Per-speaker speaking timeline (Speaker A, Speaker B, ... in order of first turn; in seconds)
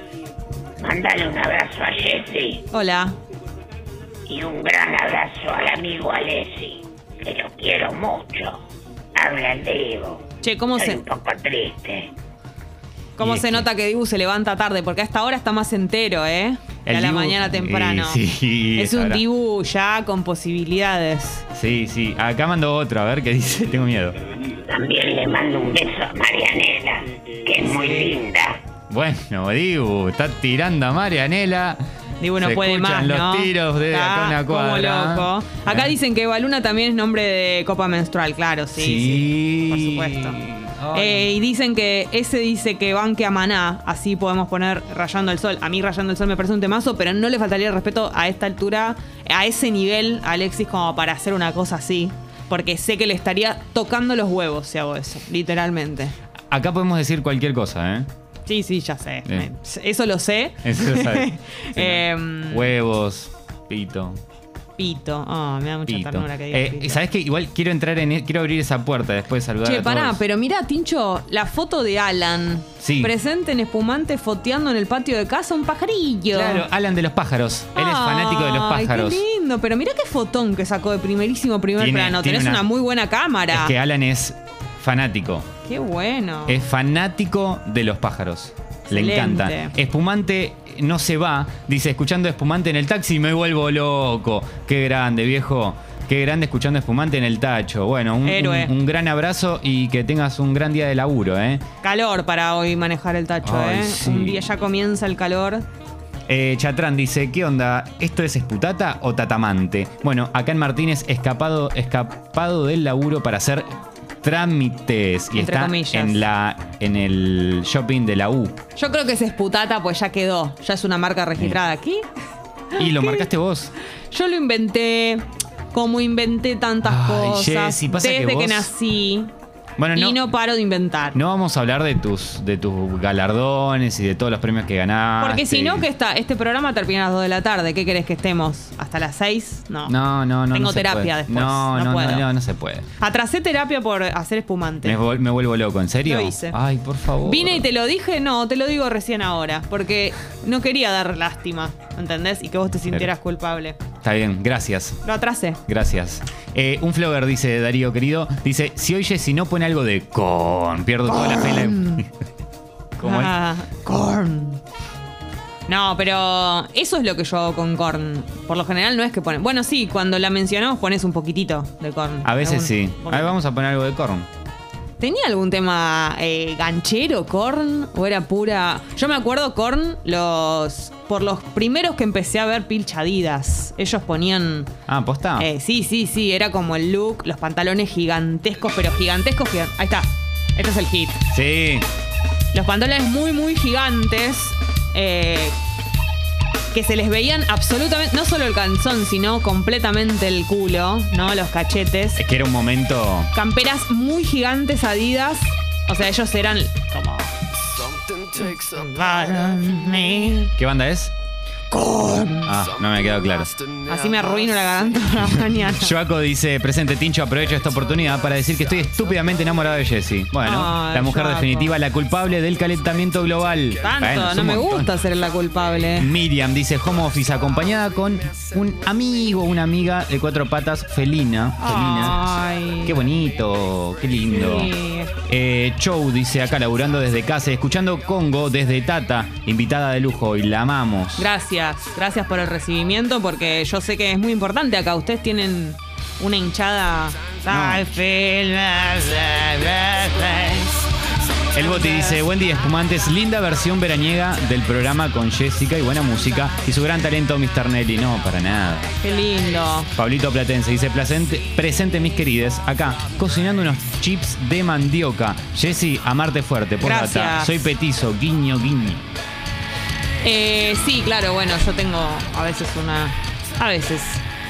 Speaker A: 0.8-2.7, 4.3-8.6, 9.2-12.1, 24.5-28.6
Speaker B: 2.7-3.2, 10.4-11.0, 13.2-18.2, 18.8-21.5, 32.2-40.4, 40.9-56.1, 58.5-62.7, 64.8-67.0, 69.6-76.7, 77.8-83.8, 85.7-86.6, 88.9-89.7, 98.2-98.7, 101.8-105.7, 115.3-116.2, 118.8-122.0, 122.7-123.3, 124.1-129.3, 129.9-131.2, 135.2-139.9, 140.5-142.3, 143.0-145.0, 146.1-146.6, 147.2-153.8, 155.0-155.6, 161.1-162.0, 163.0-164.6, 165.7-173.4, 175.0-184.7, 185.4-191.2, 192.5-195.6, 196.7-202.2, 203.3-207.3, 208.3-210.5, 211.7-212.6, 213.9-216.0, 220.4-221.7, 223.8-226.1, 231.6-233.0, 234.3-235.1, 241.2-250.9, 251.6-252.2, 259.0-259.9, 266.8-267.7, 270.2-274.2
Speaker C: 13.2-13.7, 16.9-19.2, 21.5-24.2, 28.9-31.8, 32.4-35.9, 38.8-41.3, 56.5-58.1, 60.6-64.2, 65.9-70.2, 72.8-73.1, 76.3-79.2, 81.8-82.7, 83.5-85.5, 86.5-101.6, 103.4-104.5, 106.3-113.7, 114.2-118.6, 122.8-123.7, 126.8-128.7, 129.8-130.2, 131.2-135.9, 139.9-142.9, 144.8-147.7, 154.0-155.0, 155.7-162.1, 163.0-163.4, 172.2-174.3, 184.9-185.5, 191.3-191.9, 202.2-203.3, 210.6-211.1, 212.4-213.6, 215.7-224.9, 226.0-234.7, 235.3-241.3, 247.5-247.9, 251.5-258.9, 259.9-269.1